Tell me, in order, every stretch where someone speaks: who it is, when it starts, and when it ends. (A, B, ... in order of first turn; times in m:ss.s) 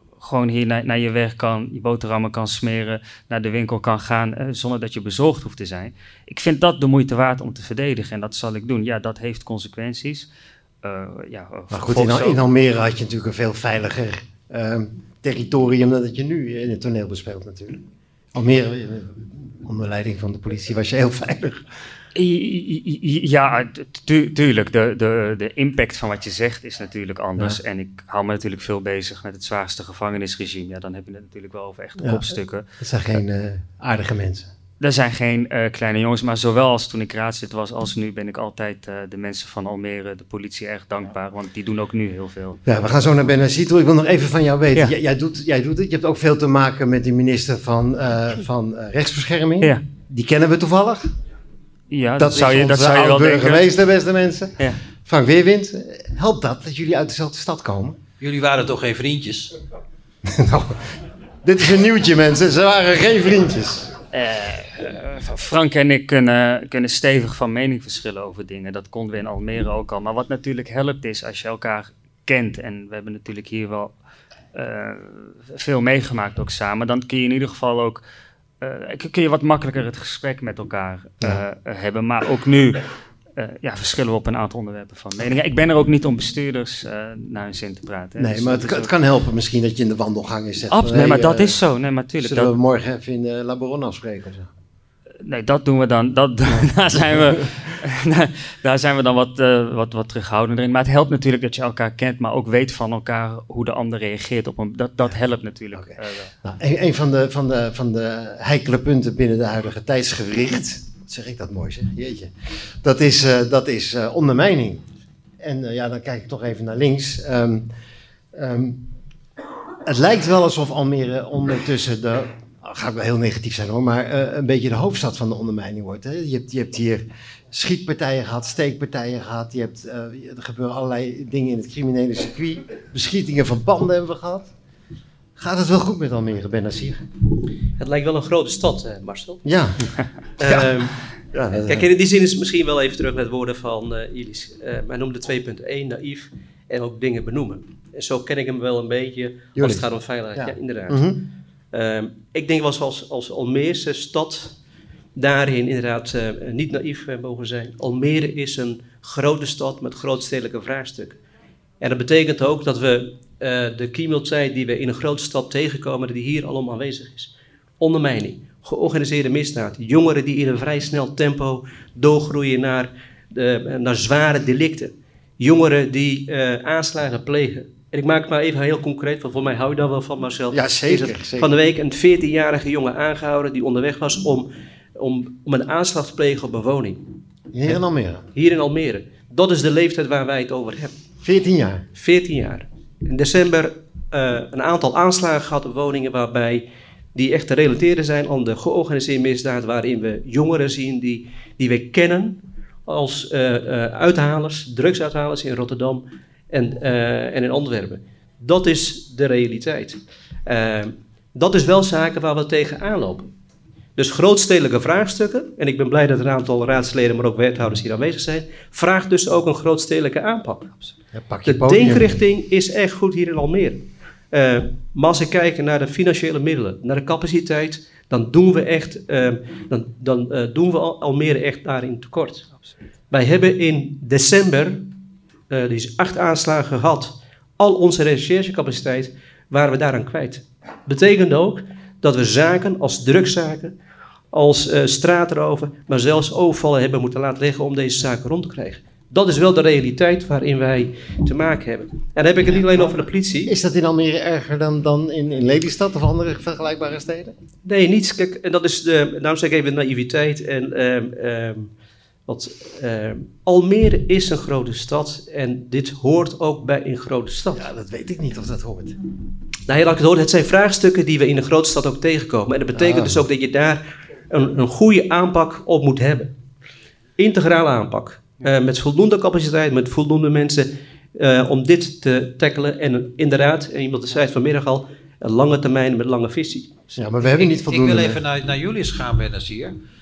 0:00.2-0:10.3 A
0:10.8-0:12.4 A
0:11.7-0:21.6 B
0:22.1-0:32.6 A
0:32.0-0:32.3 B
0:32.8-0:34.5 B
0:34.8-0:42.6 A
0:42.6-0:51.1 B
0:51.9-0:53.7 A
0:52.2-0:58.0 B
0:58.2-0:59.5 C
1:00.2-1:00.8 B
1:01.4-1:03.9 B
1:04.1-1:13.9 A
1:14.5-1:18.0 A
1:18.6-1:22.8 A
1:23.4-1:28.9 A
1:28.2-1:31.6 B
1:30.7-1:32.5 A
1:32.2-1:34.5 B
1:35.2-1:46.3 A
1:45.7-1:54.8 B
1:55.4-1:57.7 B
1:58.3-1:58.8 B
1:59.8-2:14.5 B
2:15.4-2:17.0 B
2:17.8-2:19.4 D
2:19.4-2:20.7 B
2:20.4-2:21.0 D
2:21.3-2:21.9 B
2:21.5-2:31.2 D
2:29.6-2:31.2 B
2:31.7-2:34.5 D
2:35.2-2:41.2 D
2:41.8-3:07.0 D
3:00.5-3:01.6 B
3:07.5-3:08.3 B
3:08.3-3:11.0 D
3:11.2-3:11.8 B
3:11.9-3:33.3 D
3:34.0-3:40.9 D
3:41.1-3:42.2 B
3:41.4-3:52.5 D
3:53.1-3:54.9 D
3:55.5-4:03.7 D
4:04.3-4:13.5 D
4:12.7-4:17.3 B
4:17.6-4:21.7 D
4:22.3-4:27.6 D
4:27.5-4:29.0 B
4:29.7-4:36.3 D
4:32.7-4:33.2 B
4:37.2-4:46.9 D
4:47.0-4:48.2 B
4:47.3-4:49.7 C